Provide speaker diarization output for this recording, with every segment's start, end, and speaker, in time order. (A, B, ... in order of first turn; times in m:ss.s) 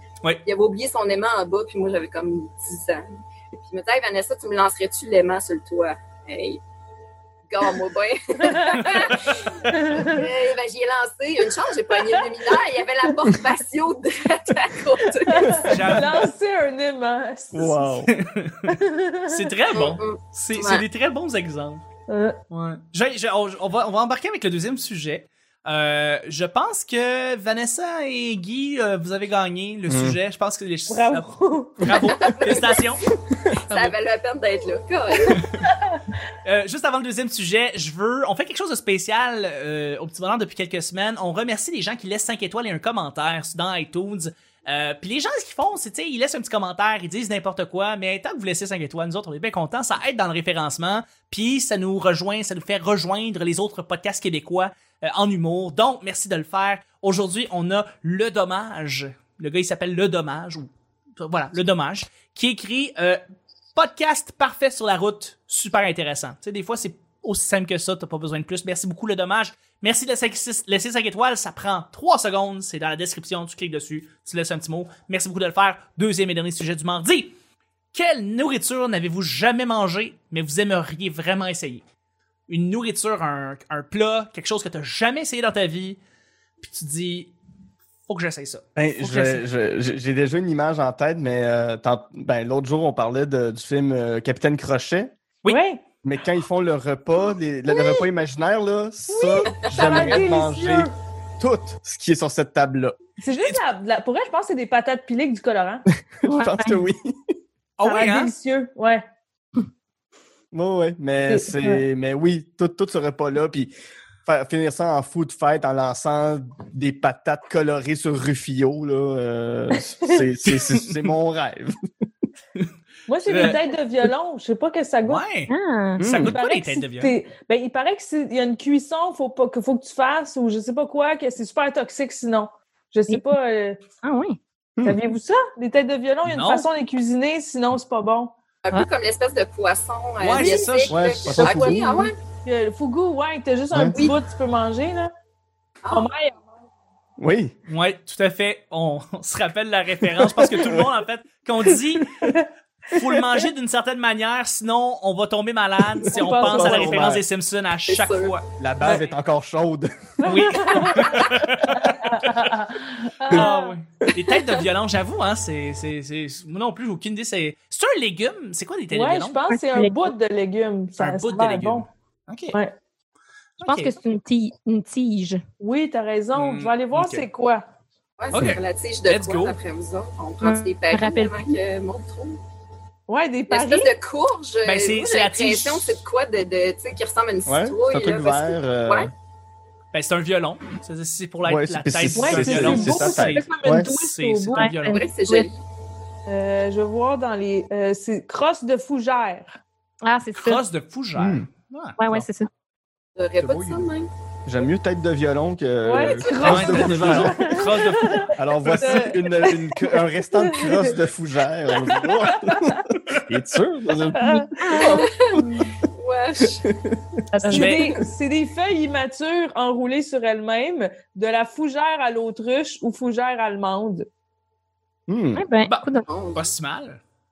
0:00.4-0:06.6 A
0:07.5-0:15.7 A
0:08.5-0:08.9 B
0:09.6-0:10.3 B
0:12.0-0:12.3 B
0:15.0-0:18.0 B
0:15.4-0:15.7 C
0:15.7-0:16.3 D
0:17.5-0:18.1 C
0:18.1-0:18.8 D
0:18.6-0:19.5 B
0:19.3-0:21.8 D
0:19.7-0:20.8 A
0:22.1-0:22.4 B
0:22.5-0:33.0 D
0:29.9-0:30.2 C
0:30.9-0:32.0 B
0:32.0-0:32.9 A
0:33.5-0:35.5 A
0:33.7-0:33.9 D
0:35.3-0:36.0 B
0:36.4-1:03.2 D
1:03.7-1:17.3 D
1:17.9-1:21.8 D
1:22.5-1:26.0 D
1:26.6-1:27.3 D
1:28.1-1:29.4 D
1:28.8-1:35.1 C
1:35.5-1:35.8 B
1:36.0-1:43.0 C
1:39.1-1:40.9 B
1:39.6-1:40.2 A
1:43.2-1:45.8 B
1:43.3-1:43.6 D
1:46.1-1:47.1 C
1:46.2-1:46.8 E
1:47.8-1:48.3 D
1:47.8-1:49.0 B
1:50.5-1:53.7 C
1:51.3-1:51.8 B
1:54.2-2:01.7 C
1:59.7-2:00.2 B
2:00.4-2:01.1 D
2:03.1-2:05.2 B
2:03.2-2:03.6 D
2:05.0-2:07.1 D
2:05.5-2:06.0 E
2:06.0-2:06.4 C
2:06.2-2:13.8 B
2:14.0-2:14.4 E
2:14.8-2:18.3 B
2:16.2-2:16.7 D
2:18.6-2:22.1 A
2:20.2-2:21.1 D
2:20.4-2:20.6 B
2:20.9-2:22.0 C
2:21.3-2:25.1 B
2:23.7-2:24.0 C
2:23.9-2:24.2 A
2:25.8-2:26.1 A
2:25.9-2:26.4 B
2:27.2-2:27.5 C
2:27.7-2:32.2 D
2:30.2-2:30.9 C
2:32.9-2:39.1 D
2:36.1-2:37.1 B
2:36.4-2:37.2 C
2:37.9-2:38.4 A
2:38.6-2:39.9 C
2:40.2-2:43.8 B
2:40.2-2:42.2 D
2:43.2-2:49.4 D
2:48.9-2:51.9 B
2:49.5-2:50.1 E
2:51.0-2:52.6 D
2:53.6-2:53.9 D
2:53.6-2:55.4 E
2:55.6-2:57.6 B
2:56.3-2:57.2 D
2:58.2-3:02.4 A
2:58.3-2:59.6 D
3:00.4-3:01.6 E
3:03.1-3:03.9 B
3:03.5-3:09.1 A
3:04.6-3:06.0 D
3:07.4-3:09.1 C
3:09.9-3:15.0 D
3:11.4-3:13.9 C
3:12.1-3:14.8 B
3:14.5-3:15.0 E
3:14.8-3:15.5 A
3:16.3-3:19.6 B
3:20.0-3:20.6 E
3:20.4-3:22.2 D
3:21.2-3:21.5 C
3:22.0-3:22.5 E
3:23.2-3:24.1 A
3:23.4-3:23.9 D
3:24.4-3:27.5 C
3:25.8-3:31.0 B
3:26.2-3:26.8 A
3:26.4-3:28.9 D
3:28.4-3:35.0 C
3:31.7-3:32.8 B
3:34.1-3:35.0 B
3:34.6-3:35.7 E
3:34.7-3:36.6 A
3:36.6-3:37.0 C
3:37.3-3:37.8 E
3:37.4-3:44.1 B
3:37.5-3:37.9 D
3:45.1-3:45.4 C
3:45.4-3:46.1 E
3:45.6-3:47.0 D
3:46.1-3:46.5 A